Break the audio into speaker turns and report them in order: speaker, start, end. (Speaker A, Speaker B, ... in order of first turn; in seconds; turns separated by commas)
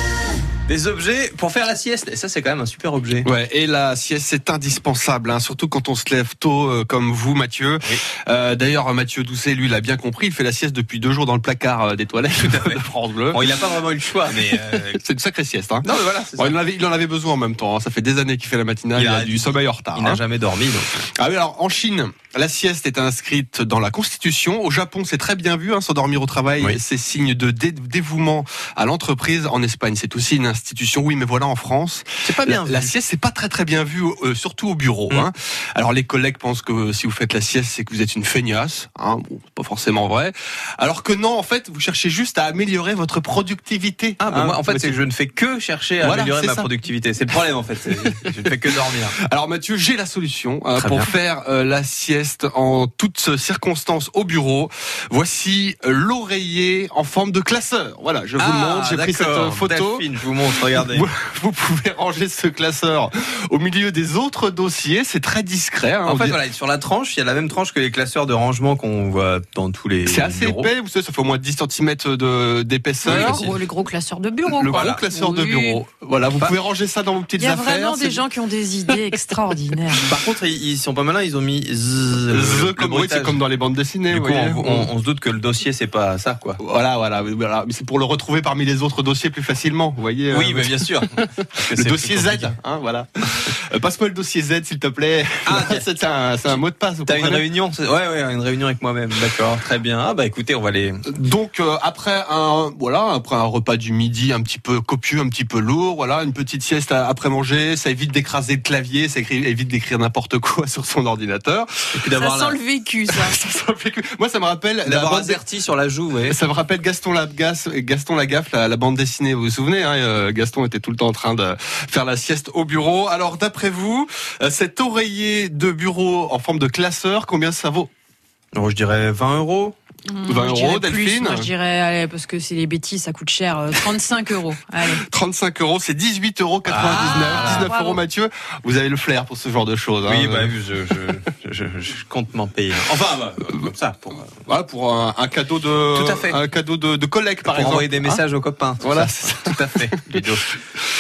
Speaker A: 0.7-3.3, Speaker B: 3.2-13.5, Speaker A: 12.4-15.0, Speaker B: 14.3-20.2, Speaker A: 15.8-16.6, Speaker A: 18.9-20.9, Speaker B: 21.0-45.0, Speaker A: 32.2-32.9, Speaker A: 44.2-49.1, Speaker B: 46.0-46.7, Speaker B: 48.9-66.4, Speaker A: 50.8-51.1, Speaker A: 58.4-61.1, Speaker A: 66.0-70.7, Speaker B: 70.0-73.6, Speaker C: 73.0-75.8, Speaker A: 73.1-73.6, Speaker B: 74.5-78.2, Speaker A: 74.7-75.0, Speaker C: 77.4-80.1, Speaker A: 80.0-83.4, Speaker B: 82.3-84.9, Speaker A: 84.1-86.6, Speaker B: 86.6-97.5, Speaker A: 90.3-92.6, Speaker A: 95.5-95.9, Speaker A: 96.4-101.1, Speaker B: 101.0-111.7, Speaker A: 112.0-112.6, Speaker C: 112.2-113.4, Speaker B: 113.1-115.4, Speaker A: 114.8-116.4, Speaker B: 116.3-127.9, Speaker A: 128.5-129.8, Speaker C: 130.1-135.0, Speaker B: 130.3-131.5, Speaker B: 135.0-140.6, Speaker A: 136.7-137.7, Speaker C: 136.8-138.0, Speaker A: 140.1-144.3, Speaker B: 144.3-148.2, Speaker A: 145.9-146.4, Speaker A: 147.5-150.6, Speaker B: 148.8-150.3